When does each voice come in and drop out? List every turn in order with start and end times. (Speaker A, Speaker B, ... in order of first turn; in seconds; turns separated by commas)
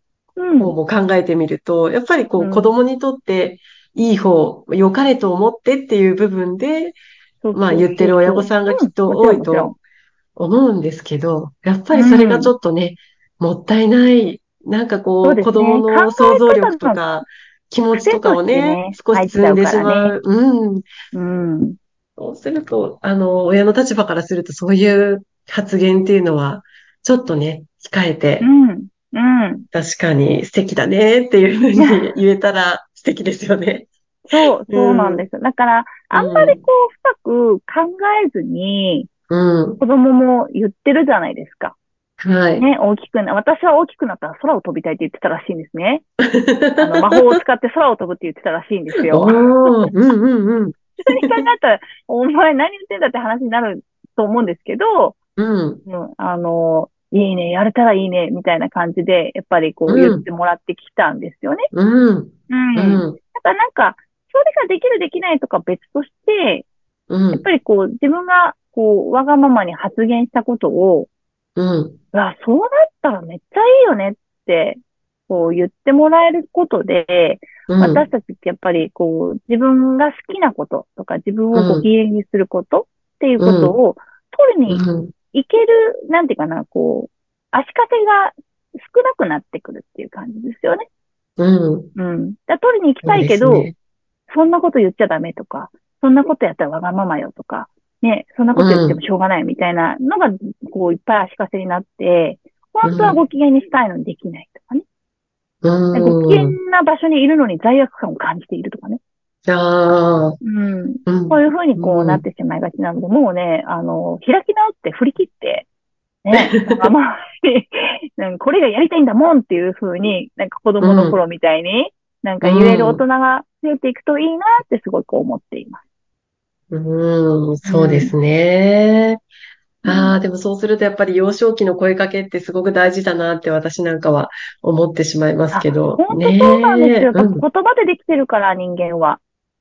Speaker A: 0.4-0.7, Speaker B: 0.6-7.0, Speaker A: 2.4-2.7, Speaker A: 7.4-9.8, Speaker B: 7.5-9.8, Speaker B: 10.3-20.9, Speaker A: 11.9-12.5, Speaker A: 15.2-17.0, Speaker A: 17.9-20.2, Speaker A: 21.1-21.8, Speaker B: 22.2-28.5, Speaker A: 28.4-29.6, Speaker B: 29.7-35.2, Speaker A: 31.8-32.1, Speaker A: 34.2-39.1, Speaker B: 36.1-36.6, Speaker B: 39.3-39.8, Speaker A: 39.8-41.8, Speaker B: 42.2-42.7, Speaker A: 42.6-46.0, Speaker B: 46.4-47.4, Speaker A: 46.8-49.9, Speaker B: 49.0-51.5, Speaker A: 51.1-55.2, Speaker B: 55.4-55.8, Speaker A: 55.9-61.7, Speaker B: 59.9-60.2, Speaker B: 61.7-63.2, Speaker A: 62.5-66.7, Speaker B: 67.1-67.4, Speaker A: 67.3-71.1, Speaker B: 71.6-72.0, Speaker A: 72.1-90.8, Speaker B: 77.7-78.0, Speaker B: 81.5-81.9, Speaker B: 83.4-83.7, Speaker B: 84.7-85.1, Speaker B: 91.4-91.9, Speaker A: 92.0-93.7, Speaker B: 93.0-93.7, Speaker A: 94.3-104.8, Speaker B: 98.5-99.0, Speaker B: 102.8-103.2, Speaker B: 105.6-106.6, Speaker A: 105.9-109.0, Speaker B: 109.5-110.4, Speaker A: 110.4-115.7, Speaker B: 111.1-112.2, Speaker A: 116.2-125.8, Speaker B: 116.3-116.9, Speaker B: 120.8-121.2, Speaker B: 122.4-123.0, Speaker B: 126.7-129.2, Speaker A: 127.6-128.1, Speaker A: 129.8-130.2, Speaker B: 129.8-137.4, Speaker A: 135.5-139.2